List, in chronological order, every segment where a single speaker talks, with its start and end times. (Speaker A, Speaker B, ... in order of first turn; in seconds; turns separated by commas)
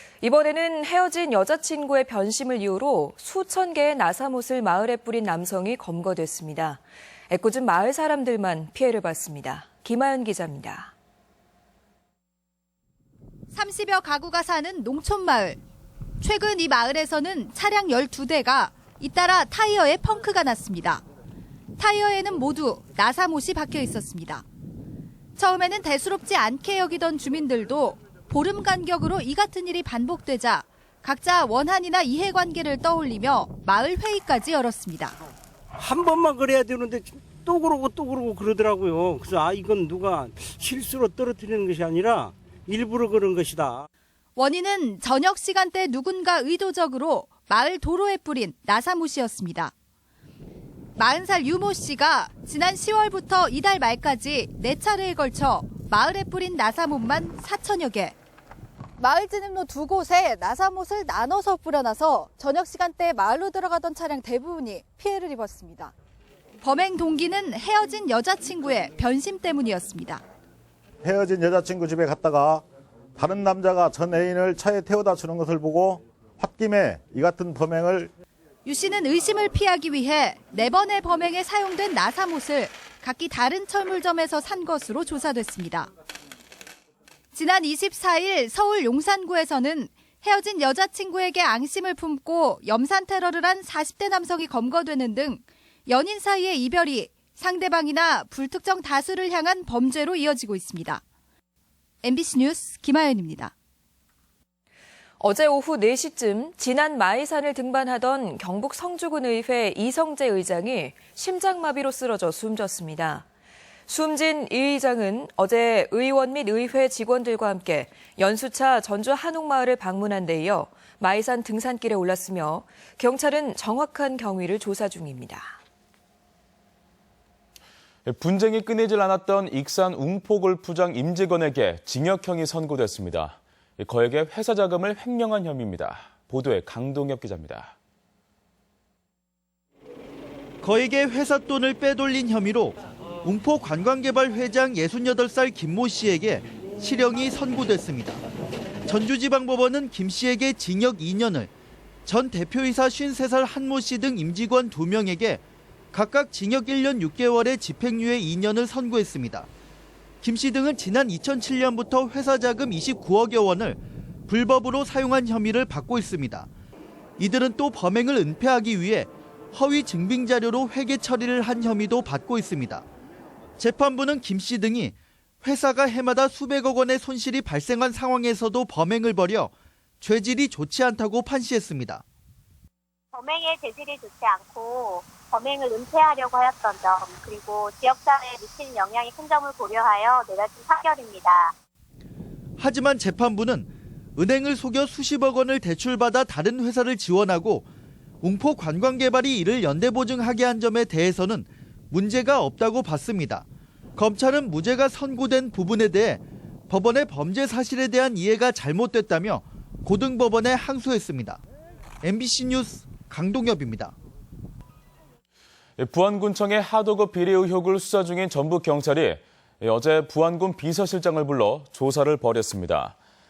Speaker A: 0.2-10.9, Speaker B: 13.5-15.6, Speaker B: 16.2-21.0, Speaker B: 21.8-24.4, Speaker B: 25.4-35.2, Speaker C: 35.8-43.8, Speaker B: 44.4-49.7, Speaker B: 51.0-58.1, Speaker B: 59.0-65.9, Speaker B: 66.6-70.2, Speaker D: 71.0-72.6, Speaker D: 73.2-78.1, Speaker B: 78.7-85.9, Speaker B: 87.3-101.0, Speaker B: 102.0-103.5, Speaker A: 105.2-113.2, Speaker A: 113.9-125.5, Speaker E: 128.1-137.7, Speaker F: 140.6-148.2, Speaker F: 148.9-151.5, Speaker F: 152.1-155.4, Speaker F: 155.9-159.5, Speaker F: 160.2-166.5, Speaker F: 167.2-172.8, Speaker F: 173.6-182.0, Speaker G: 183.1-191.5, Speaker F: 192.6-197.7, Speaker F: 198.2-203.4, Speaker F: 204.0-211.4, Speaker F: 212.0-213.9, Speaker E: 215.8-222.9